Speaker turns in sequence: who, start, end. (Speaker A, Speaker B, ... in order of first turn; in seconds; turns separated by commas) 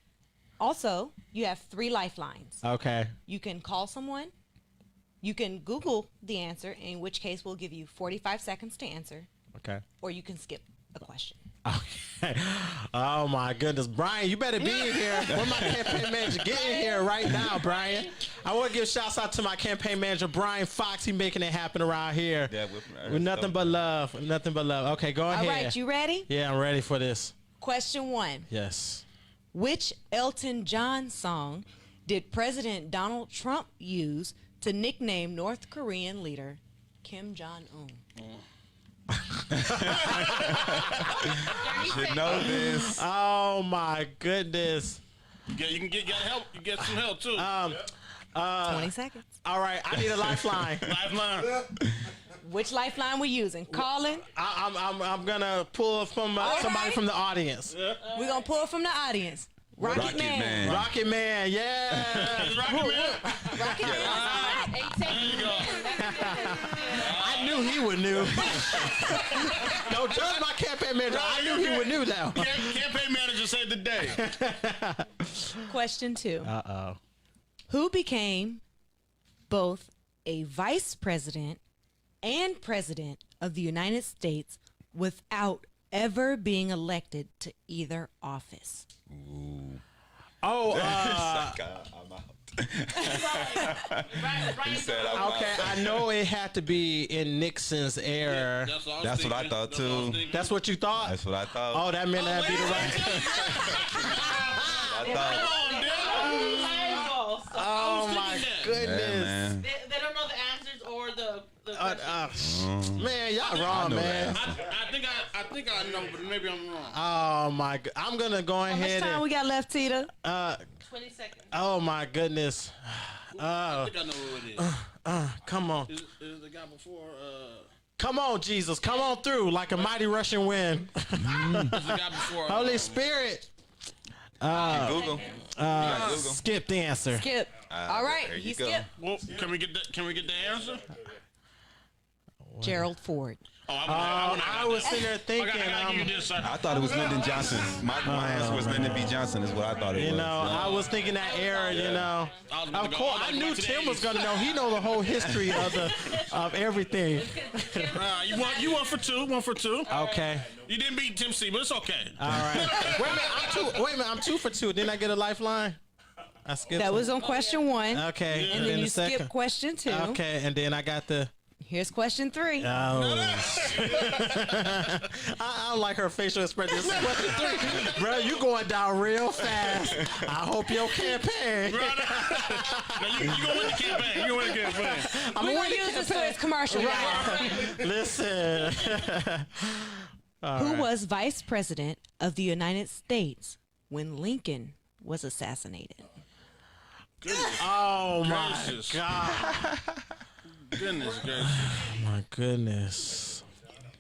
Speaker A: 0.6-2.6, Speaker B: 2.6-3.1, Speaker A: 3.3-4.3, Speaker A: 5.2-9.3, Speaker B: 9.6-9.8, Speaker A: 10.0-11.4, Speaker B: 11.7-22.5, Speaker A: 14.6-15.2, Speaker C: 15.3-16.0, Speaker D: 16.7-18.4, Speaker C: 22.5-23.8, Speaker B: 23.1-27.4, Speaker A: 25.3-26.3, Speaker A: 27.6-28.5, Speaker B: 28.5-29.0, Speaker A: 29.5-38.0, Speaker E: 38.2-38.4, Speaker C: 39.6-43.0, Speaker B: 39.8-41.0, Speaker E: 40.2-41.2, Speaker D: 41.5-42.5, Speaker B: 42.3-45.0, Speaker E: 45.5-47.5, Speaker B: 47.3-48.9, Speaker A: 48.6-49.3, Speaker B: 49.4-51.0, Speaker E: 50.8-51.7, Speaker A: 52.4-54.3, Speaker B: 53.7-57.8, Speaker A: 56.4-57.0, Speaker E: 57.7-58.0, Speaker D: 58.0-58.4, Speaker A: 58.1-60.8, Speaker B: 59.8-64.2, Speaker C: 59.8-60.9, Speaker E: 62.1-65.8, Speaker A: 63.2-65.0, Speaker C: 63.8-64.3, Speaker D: 64.5-67.4, Speaker B: 65.9-72.9, Speaker E: 66.9-69.8, Speaker E: 71.0-74.2, Speaker B: 74.0-75.6, Speaker A: 75.7-76.5, Speaker B: 76.4-77.0, Speaker A: 77.7-78.6, Speaker A: 79.5-81.6, Speaker A: 82.2-88.9, Speaker C: 89.1-89.8, Speaker B: 90.4-91.6, Speaker C: 90.7-96.1, Speaker D: 93.0-95.4, Speaker B: 95.1-98.7, Speaker E: 98.2-100.5, Speaker C: 99.0-100.2, Speaker B: 100.3-101.1, Speaker C: 101.0-101.9, Speaker B: 101.7-105.2, Speaker E: 102.1-106.8, Speaker C: 102.5-104.1, Speaker C: 104.6-105.5, Speaker D: 105.0-107.7, Speaker B: 106.3-109.5, Speaker E: 107.7-108.7, Speaker C: 108.7-109.7, Speaker D: 109.6-112.5, Speaker B: 111.7-114.5, Speaker C: 112.4-113.1, Speaker E: 113.5-113.8, Speaker C: 113.7-114.6, Speaker E: 114.3-117.0, Speaker B: 116.9-119.2, Speaker A: 118.7-120.1, Speaker B: 120.2-120.6, Speaker D: 120.8-121.5, Speaker B: 121.5-124.0, Speaker E: 123.4-124.7, Speaker B: 124.6-125.9, Speaker E: 125.9-127.7, Speaker B: 128.0-133.5, Speaker C: 131.2-131.8, Speaker E: 131.7-133.0, Speaker B: 134.4-137.3, Speaker C: 134.6-136.4, Speaker D: 134.7-135.1, Speaker E: 135.8-136.2, Speaker A: 137.1-138.9, Speaker C: 137.7-138.9, Speaker E: 139.0-140.9, Speaker B: 142.5-142.9, Speaker A: 142.6-143.4, Speaker E: 143.7-147.7, Speaker B: 143.8-146.2, Speaker A: 144.8-145.2, Speaker C: 146.4-150.9, Speaker B: 148.0-149.2, Speaker B: 149.9-158.0, Speaker E: 150.5-154.3, Speaker D: 151.0-152.5, Speaker D: 154.3-154.6, Speaker D: 155.5-156.3, Speaker D: 157.1-159.0, Speaker E: 157.9-163.5, Speaker D: 159.8-160.4, Speaker B: 159.9-160.5, Speaker B: 162.2-165.8, Speaker B: 166.4-167.2, Speaker A: 166.7-170.2, Speaker D: 167.1-167.8, Speaker B: 167.9-169.3, Speaker E: 168.3-168.8, Speaker B: 169.8-171.3, Speaker A: 171.6-172.7, Speaker B: 172.6-190.9, Speaker E: 173.0-174.3, Speaker E: 176.8-178.1, Speaker E: 181.6-185.2, Speaker A: 185.2-187.7, Speaker D: 186.7-187.7, Speaker A: 190.6-196.1, Speaker E: 197.2-199.0, Speaker B: 197.6-199.8, Speaker E: 200.6-201.9, Speaker B: 201.4-203.4